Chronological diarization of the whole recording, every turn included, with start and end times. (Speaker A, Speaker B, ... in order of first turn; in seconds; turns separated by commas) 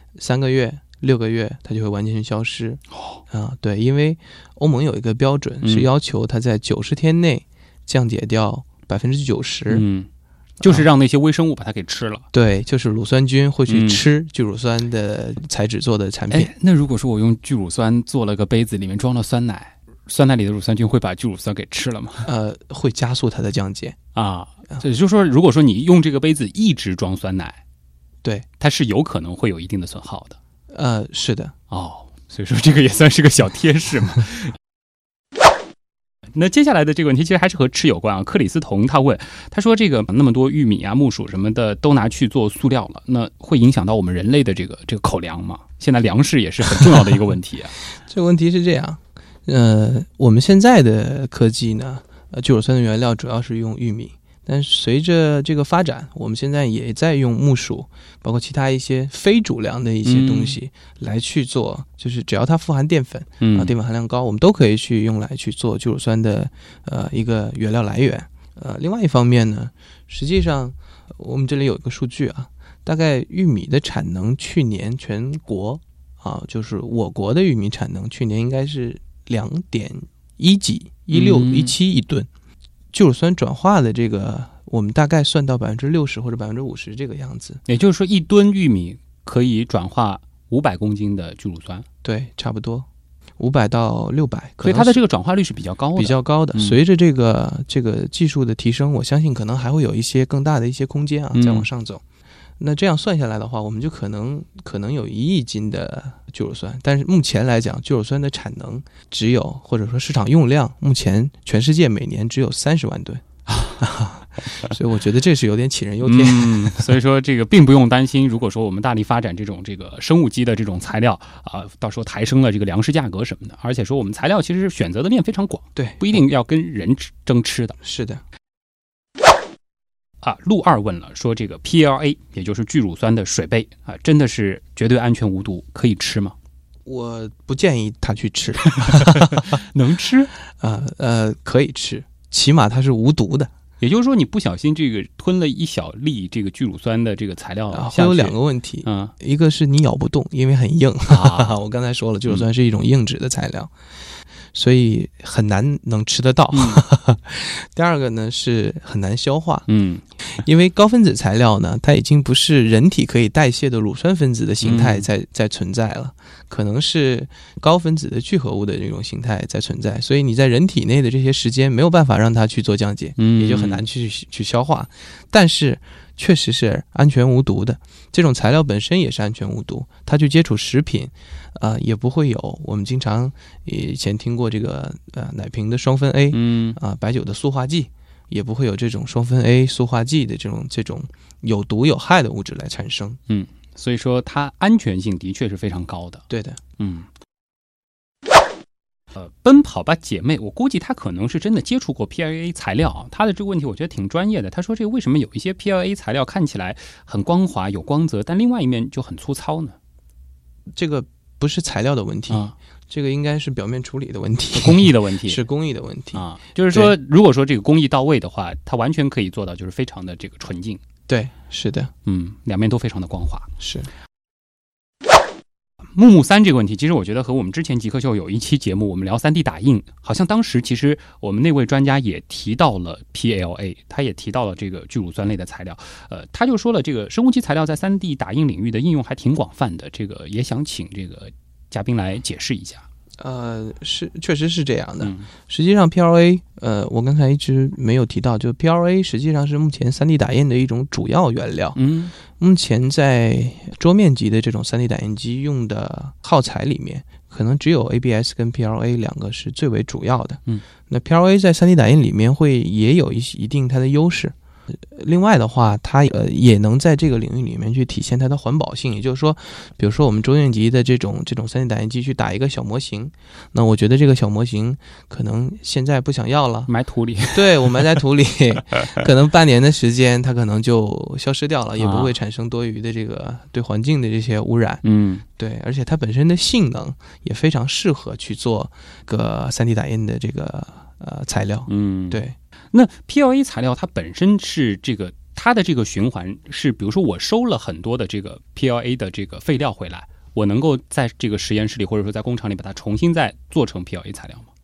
Speaker A: 0.2-9.8, Speaker B: 2.9-3.2, Speaker B: 5.6-5.9, Speaker B: 9.7-10.1, Speaker B: 10.6-12.3, Speaker A: 10.6-10.9, Speaker A: 12.3-16.5, Speaker B: 13.7-14.0, Speaker B: 16.3-22.3, Speaker A: 22.2-24.0, Speaker B: 24.1-27.6, Speaker B: 28.6-30.4, Speaker A: 30.7-31.6, Speaker B: 31.7-34.5, Speaker B: 36.3-47.8, Speaker A: 48.1-82.3, Speaker B: 60.0-60.6, Speaker B: 63.4-63.7, Speaker B: 81.1-81.8, Speaker A: 82.9-87.6, Speaker B: 87.7-91.9, Speaker A: 92.0-92.9, Speaker A: 93.4-95.0, Speaker B: 94.6-96.8, Speaker A: 96.0-102.0, Speaker B: 101.3-101.7, Speaker A: 102.6-113.2, Speaker A: 113.8-116.9, Speaker B: 116.0-127.8, Speaker A: 125.8-126.1, Speaker A: 127.8-128.2, Speaker B: 130.2-136.3, Speaker A: 136.8-139.6, Speaker B: 138.7-140.3, Speaker A: 140.6-143.5, Speaker B: 143.8-149.1, Speaker A: 147.7-153.7, Speaker B: 151.1-151.6, Speaker A: 154.5-159.7, Speaker B: 156.5-156.8, Speaker B: 159.7-160.0, Speaker A: 160.3-193.2, Speaker B: 164.6-165.1, Speaker B: 173.2-173.8, Speaker B: 186.3-186.8, Speaker B: 193.3-196.2, Speaker A: 196.3-196.6, Speaker B: 196.8-197.1, Speaker B: 199.1-209.8, Speaker A: 210.7-216.9, Speaker B: 212.3-212.6, Speaker B: 214.5-215.4, Speaker B: 216.1-220.8, Speaker A: 221.1-221.9, Speaker B: 222.1-223.5, Speaker A: 223.6-223.9, Speaker B: 225.9-242.8, Speaker A: 243.2-276.7, Speaker B: 245.0-245.3, Speaker B: 251.8-252.2, Speaker B: 276.7-277.9, Speaker A: 277.3-292.4, Speaker B: 281.8-282.1, Speaker B: 284.8-285.2, Speaker B: 291.7-304.5